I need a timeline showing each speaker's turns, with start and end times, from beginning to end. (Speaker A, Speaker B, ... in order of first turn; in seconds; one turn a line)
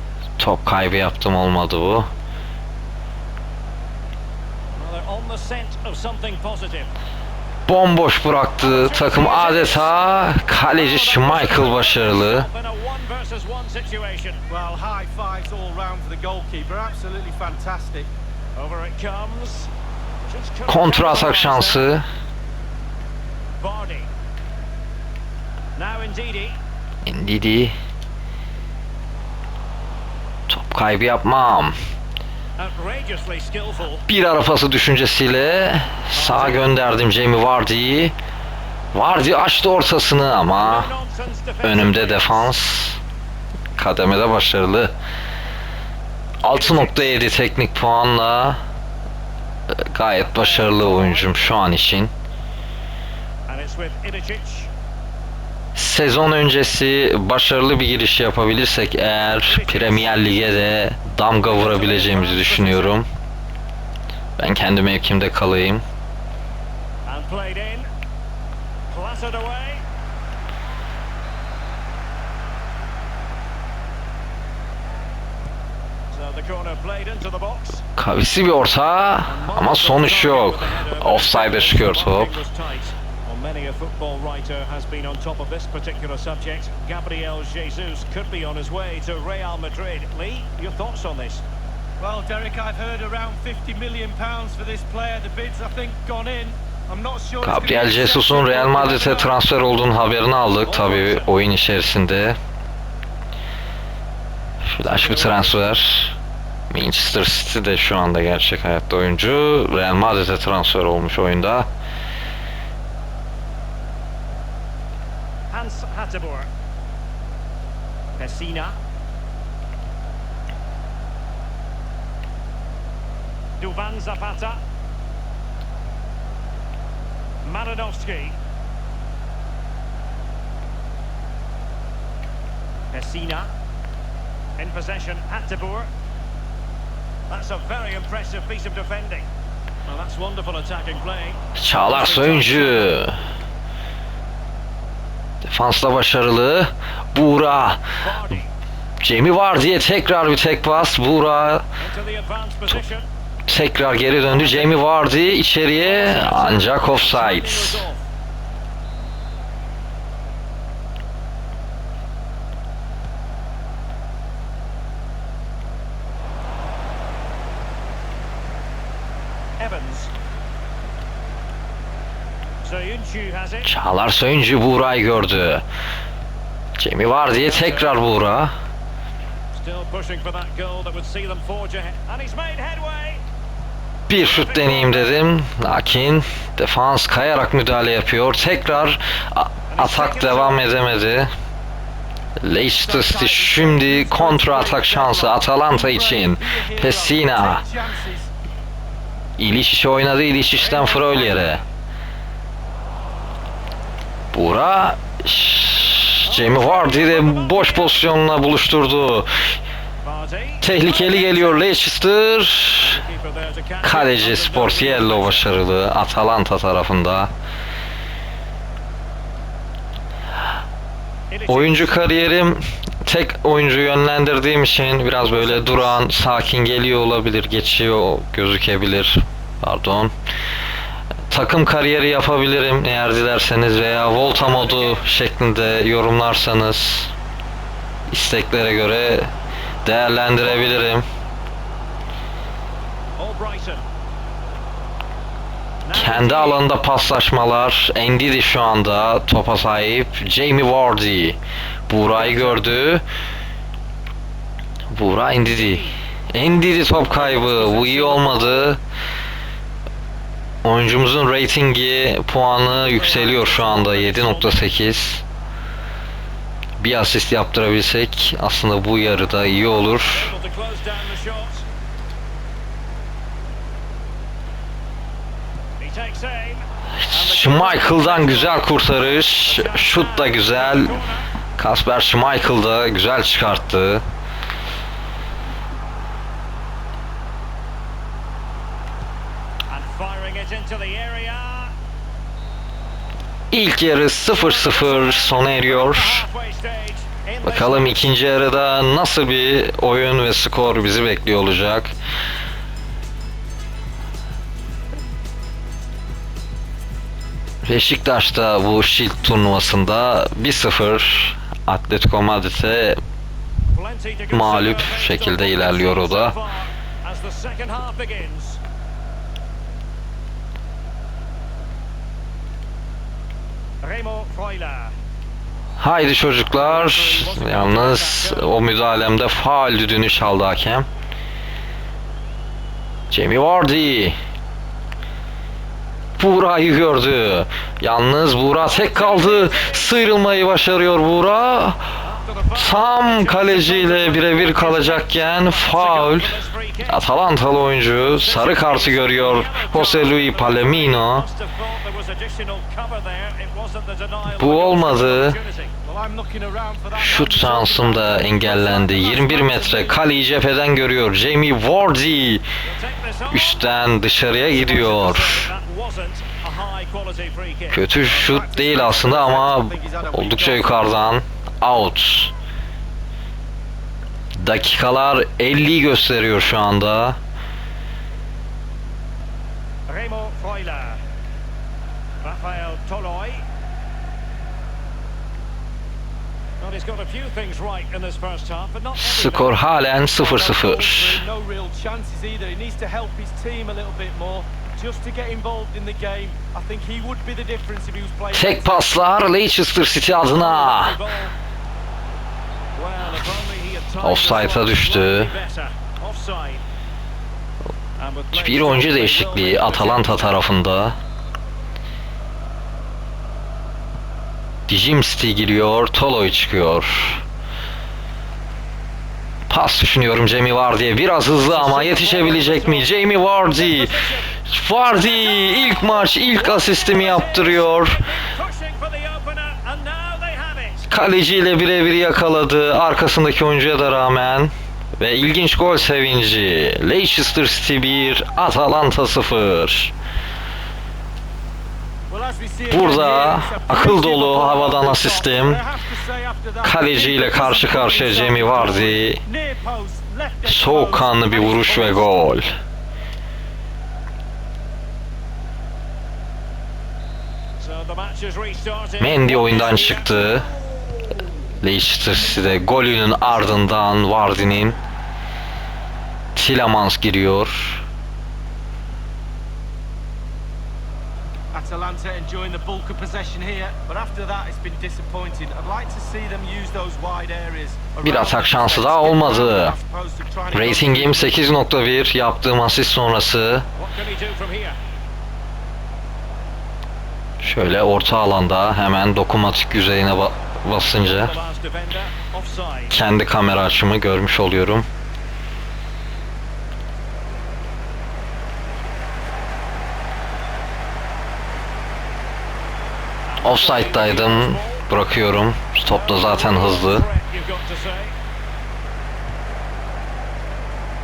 Speaker A: 0.4-2.1
Speaker B: 4.8-6.9
Speaker A: 7.7-12.5
Speaker B: 8.6-14.4
Speaker C: 14.5-18.1
Speaker B: 18.6-19.7
Speaker B: 20.2-21.9
Speaker A: 20.7-22.1
Speaker B: 23.6-24.1
Speaker B: 25.8-26.6
Speaker A: 27.1-27.7
Speaker A: 30.5-31.8
Speaker B: 32.6-34.0
Speaker A: 34.1-38.1
Speaker B: 36.1-36.8
Speaker A: 38.9-40.9
Speaker B: 40.6-42.5
Speaker A: 41.6-43.0
Speaker A: 43.8-44.9
Speaker A: 46.4-48.6
Speaker B: 46.4-47.2
Speaker A: 49.7-52.1
Speaker B: 50.2-51.4
Speaker B: 53.5-54.7
Speaker A: 55.8-63.1
Speaker B: 59.4-60.5
Speaker B: 61.4-63.0
Speaker A: 64.4-65.8
Speaker B: 67.1-67.9
Speaker B: 68.9-69.8
Speaker B: 76.1-77.8
Speaker A: 78.0-82.3
Speaker B: 79.2-91.4
Speaker C: 92.0-99.4
Speaker A: 97.4-102.4
Speaker B: 100.6-101.3
Speaker A: 104.7-106.2
Speaker B: 104.8-105.7
Speaker A: 106.7-111.7
Speaker B: 115.5-116.5
Speaker B: 118.2-118.8
Speaker B: 123.6-124.6
Speaker B: 127.4-128.4
Speaker B: 132.9-133.5
Speaker B: 134.6-135.9
Speaker B: 137.3-139.3
Speaker B: 139.9-142.9
Speaker A: 141.6-143.2
Speaker A: 145.4-147.8
Speaker B: 148.0-148.5
Speaker A: 149.0-151.6
Speaker B: 151.8-153.1
Speaker A: 153.5-157.8
Speaker B: 154.2-154.9
Speaker B: 155.7-158.1
Speaker B: 169.6-170.1
Speaker B: 172.6-173.7
Speaker A: 173.7-175.6
Speaker A: 176.8-178.5
Speaker B: 177.3-178.0
Speaker B: 179.5-183.2
Speaker A: 184.1-191.3
Speaker B: 184.1-185.3
Speaker B: 189.7-190.7
Speaker A: 192.4-197.6
Speaker C: 192.8-198.3
Speaker A: 199.4-201.6
Speaker B: 200.5-201.6
Speaker A: 204.3-209.3
Speaker B: 206.2-208.1
Speaker B: 210.0-211.8
Speaker A: 210.6-213.0
Speaker B: 212.8-215.6
Speaker A: 213.8-217.3
Speaker B: 221.3-222.0
Speaker A: 221.5-230.1
Speaker B: 225.2-226.0
Speaker A: 231.3-237.1
Speaker B: 234.0-235.1
Speaker A: 238.1-239.3
Speaker A: 239.8-241.1
Speaker B: 243.2-243.8
Speaker B: 245.8-246.7
Speaker A: 245.9-253.0
Speaker B: 252.1-252.7
Speaker A: 254.9-258.8
Speaker B: 255.4-255.9
Speaker B: 256.8-258.7
Speaker A: 260.6-265.2
Speaker B: 262.6-264.8
Speaker A: 266.8-270.3
Speaker B: 270.0-271.6
Speaker B: 275.8-281.3
Speaker A: 277.1-280.9
Speaker A: 281.6-284.0
Speaker B: 289.7-291.7
Speaker A: 293.5-296.2
Speaker B: 294.3-298.2
Speaker A: 297.4-301.9
Speaker A: 307.6-313.0
Speaker B: 313.7-318.6
Speaker A: 314.3-316.4
Speaker B: 323.8-324.9
Speaker A: 325.8-330.9
Speaker B: 326.5-328.6
Speaker A: 333.1-334.1
Speaker A: 336.2-341.8
Speaker B: 338.6-340.3
Speaker B: 342.0-347.0
Speaker A: 342.5-351.3
Speaker B: 348.1-355.7
Speaker A: 354.3-355.4
Speaker C: 355.8-360.0
Speaker A: 357.0-362.4
Speaker B: 362.6-367.8
Speaker A: 363.3-365.5
Speaker A: 367.7-372.3
Speaker C: 368.0-370.7
Speaker A: 374.4-377.2
Speaker B: 379.9-381.0
Speaker B: 382.2-383.4
Speaker B: 386.6-389.6
Speaker A: 389.0-391.2
Speaker C: 390.1-398.9
Speaker A: 398.3-401.0
Speaker B: 400.2-401.3
Speaker B: 402.8-406.6
Speaker A: 404.0-405.3
Speaker B: 408.0-410.4
Speaker A: 408.3-411.0
Speaker A: 414.7-417.2
Speaker A: 419.5-423.9
Speaker B: 421.3-424.4
Speaker A: 424.4-428.0
Speaker B: 424.9-430.9
Speaker A: 430.9-439.9
Speaker C: 442.1-452.1
Speaker A: 442.7-445.6
Speaker A: 446.6-449.2
Speaker A: 450.4-452.5
Speaker B: 457.6-460.4
Speaker A: 459.0-460.5
Speaker A: 461.6-464.8
Speaker A: 466.4-467.8
Speaker C: 471.5-481.4
Speaker A: 478.0-479.8
Speaker A: 480.5-483.6
Speaker B: 483.8-484.8
Speaker A: 487.4-491.3
Speaker B: 490.7-493.0
Speaker A: 492.9-494.9
Speaker B: 503.3-504.9
Speaker A: 503.4-507.1
Speaker B: 505.9-508.1